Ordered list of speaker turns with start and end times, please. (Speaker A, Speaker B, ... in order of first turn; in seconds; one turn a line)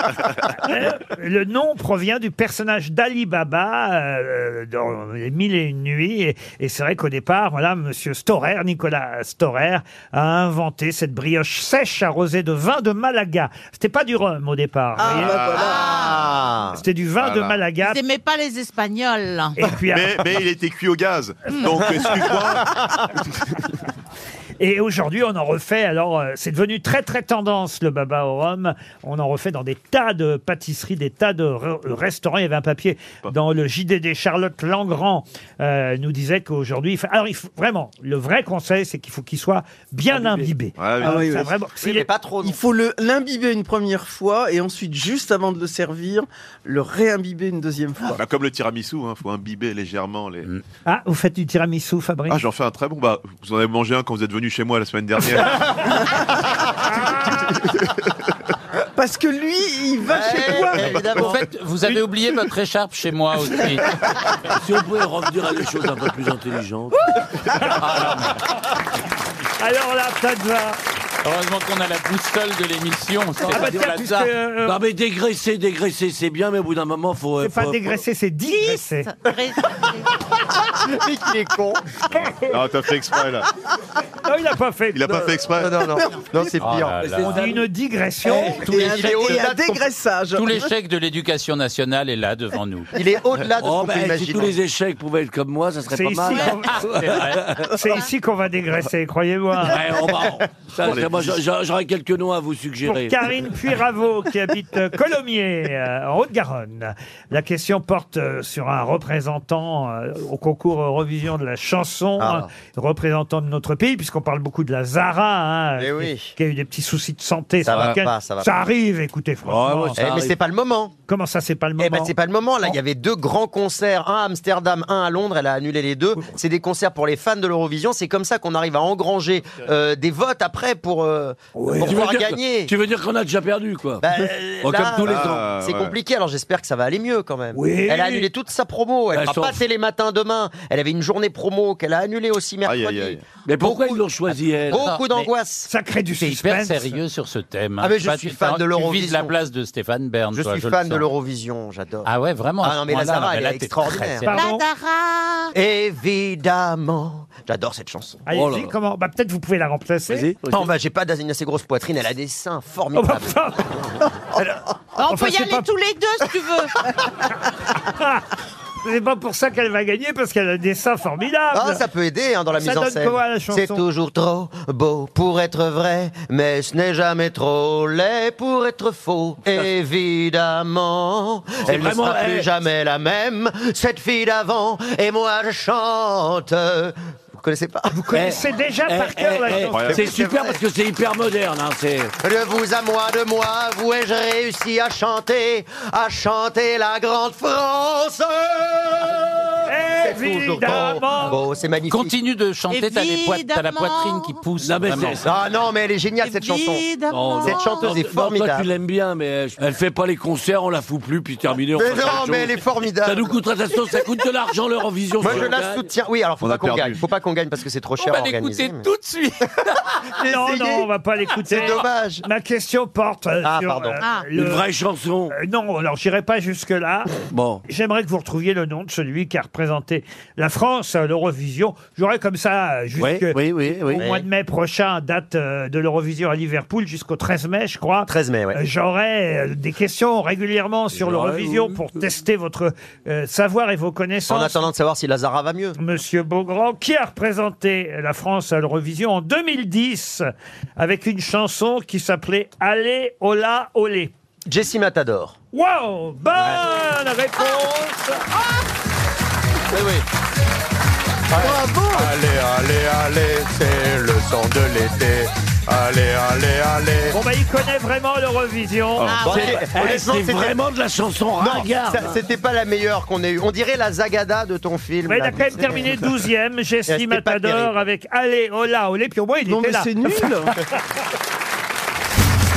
Speaker A: 0.6-15.4
Speaker B: 15.0-15.9
Speaker C: 15.1-16.1
Speaker D: 15.5-16.2
Speaker E: 15.8-16.8
Speaker A: 16.7-18.0
Speaker C: 17.2-17.6
Speaker D: 17.8-19.6
Speaker A: 19.6-20.2
Speaker C: 19.9-22.7
Speaker E: 22.0-22.8
Speaker A: 24.6-42.1
Speaker F: 40.1-40.5
Speaker C: 40.8-41.3
Speaker B: 41.0-41.5
Speaker E: 41.8-42.6
Speaker B: 42.4-48.2
Speaker C: 48.1-50.5
Speaker A: 50.9-52.4
Speaker C: 52.3-56.2
Speaker C: 57.5-57.9
Speaker B: 59.0-61.2
Speaker E: 60.1-61.4
Speaker G: 61.1-63.9
Speaker F: 64.5-67.0
Speaker G: 67.8-68.3
Speaker A: 69.6-70.8
Speaker G: 71.2-74.2
Speaker F: 73.4-78.0
Speaker A: 73.5-74.8
Speaker A: 77.4-79.1
Speaker D: 78.5-80.1
Speaker E: 80.8-81.8
Speaker C: 82.1-83.5
Speaker A: 84.2-85.3
Speaker C: 84.9-85.8
Speaker E: 85.6-87.0
Speaker G: 86.6-87.3
Speaker F: 87.0-87.6
Speaker A: 87.2-89.3
Speaker B: 88.2-90.7
Speaker E: 88.7-89.9
Speaker G: 90.3-92.9
Speaker E: 92.9-94.5
Speaker F: 93.6-97.7
Speaker A: 95.9-99.8
Speaker D: 96.2-96.6
Speaker G: 96.8-97.5
Speaker F: 99.6-103.2
Speaker C: 100.8-101.4
Speaker A: 102.8-120.0
Speaker E: 112.2-112.5
Speaker E: 115.8-116.3
Speaker E: 117.6-118.5
Speaker F: 119.5-120.4
Speaker E: 120.0-120.9
Speaker A: 121.1-122.8
Speaker E: 121.8-132.7
Speaker A: 131.5-132.0
Speaker F: 131.8-134.1
Speaker E: 134.0-144.0
Speaker F: 134.6-135.4
Speaker C: 135.0-135.9
Speaker A: 137.5-138.3
Speaker F: 139.1-139.6
Speaker C: 142.6-143.2
Speaker F: 143.4-144.9
Speaker E: 144.7-145.7
Speaker G: 144.7-145.3
Speaker A: 145.7-147.0
Speaker G: 146.2-151.1
Speaker E: 147.8-149.3
Speaker E: 150.3-152.1
Speaker G: 152.0-154.3
Speaker E: 152.6-154.2
Speaker A: 154.2-154.6
Speaker D: 154.3-155.5
Speaker E: 155.5-158.2
Speaker A: 158.2-160.3
Speaker F: 158.3-158.7
Speaker F: 160.1-160.7
Speaker E: 160.5-164.6
Speaker A: 162.9-163.7
Speaker D: 164.9-166.8
Speaker A: 165.1-165.7
Speaker A: 167.7-168.2
Speaker A: 168.8-171.8
Speaker E: 171.5-187.9
Speaker A: 172.6-173.8
Speaker F: 181.7-182.5
Speaker A: 187.9-190.1
Speaker F: 188.1-192.1
Speaker C: 189.7-190.2
Speaker E: 189.9-190.6
Speaker E: 192.2-199.5
Speaker A: 199.7-201.4
Speaker E: 200.0-202.1
Speaker G: 201.9-205.2
Speaker D: 202.7-204.4
Speaker F: 204.6-205.3
Speaker E: 205.2-206.8
Speaker D: 206.2-208.0
Speaker F: 207.1-215.9
Speaker E: 207.4-208.7
Speaker E: 211.8-213.4
Speaker E: 215.2-218.9
Speaker C: 216.4-217.0
Speaker G: 218.0-219.8
Speaker E: 220.2-220.9
Speaker A: 220.2-224.6
Speaker E: 221.4-222.2
Speaker E: 223.4-224.0
Speaker D: 224.0-224.3
Speaker F: 224.3-225.3
Speaker A: 225.3-227.1
Speaker F: 227.3-227.6
Speaker A: 227.7-244.7
Speaker F: 233.0-234.0
Speaker E: 233.9-234.2
Speaker E: 238.1-238.6
Speaker F: 240.9-241.8
Speaker E: 244.3-245.8
Speaker A: 245.8-254.1
Speaker E: 254.5-255.3
Speaker A: 255.5-258.2
Speaker D: 257.4-257.6
Speaker G: 259.7-260.0
Speaker E: 261.3-267.1
Speaker A: 267.1-269.3
Speaker C: 269.0-269.4
Speaker D: 269.0-269.6
Speaker E: 269.2-270.6
Speaker F: 269.4-272.2
Speaker E: 271.4-276.0
Speaker A: 275.1-280.6
Speaker E: 276.9-277.8
Speaker B: 279.5-280.5